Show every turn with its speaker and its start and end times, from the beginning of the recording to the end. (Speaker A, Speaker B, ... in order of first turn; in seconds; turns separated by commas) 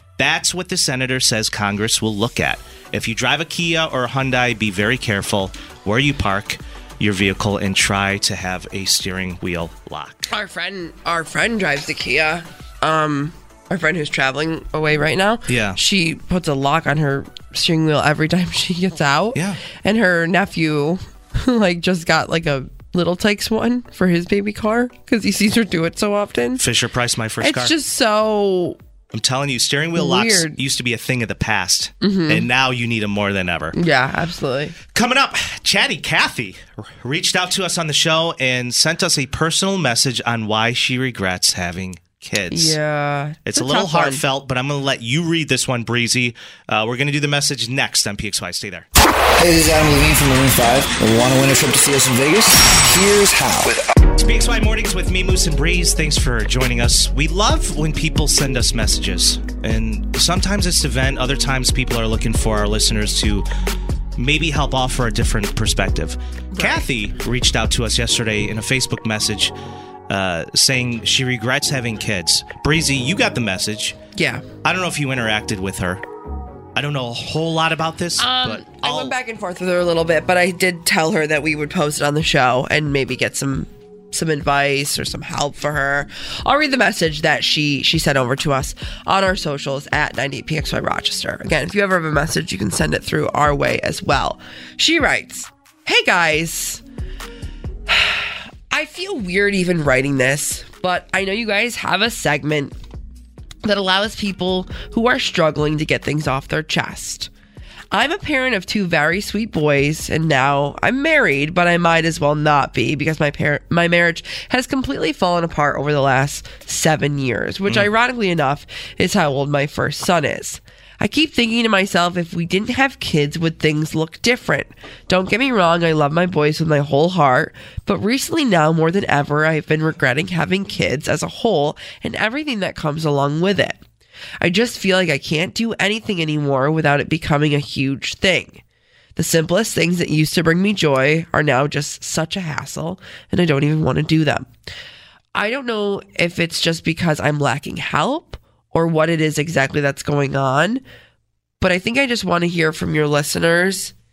Speaker A: 0.2-10.3, Speaker B: 10.3-26.6, Speaker A: 15.5-15.8, Speaker A: 19.3-19.6, Speaker A: 26.6-27.7, Speaker B: 27.4-28.8, Speaker A: 29.1-33.8, Speaker B: 29.9-30.6, Speaker B: 32.0-32.5, Speaker B: 33.7-34.8, Speaker A: 34.9-42.8, Speaker B: 42.5-44.2, Speaker A: 43.5-48.9, Speaker C: 49.4-53.9, Speaker A: 54.1-63.5, Speaker A: 64.2-69.5, Speaker B: 66.5-66.8, Speaker A: 70.1-74.0, Speaker B: 74.1-74.4, Speaker A: 74.6-76.0, Speaker A: 76.7-79.2, Speaker B: 78.2-96.8, Speaker B: 97.9-102.7, Speaker B: 103.6-107.3, Speaker B: 107.9-133.8, Speaker B: 134.4-138.6, Speaker B: 139.2-144.5, Speaker B: 145.3-150.8, Speaker B: 151.6-153.9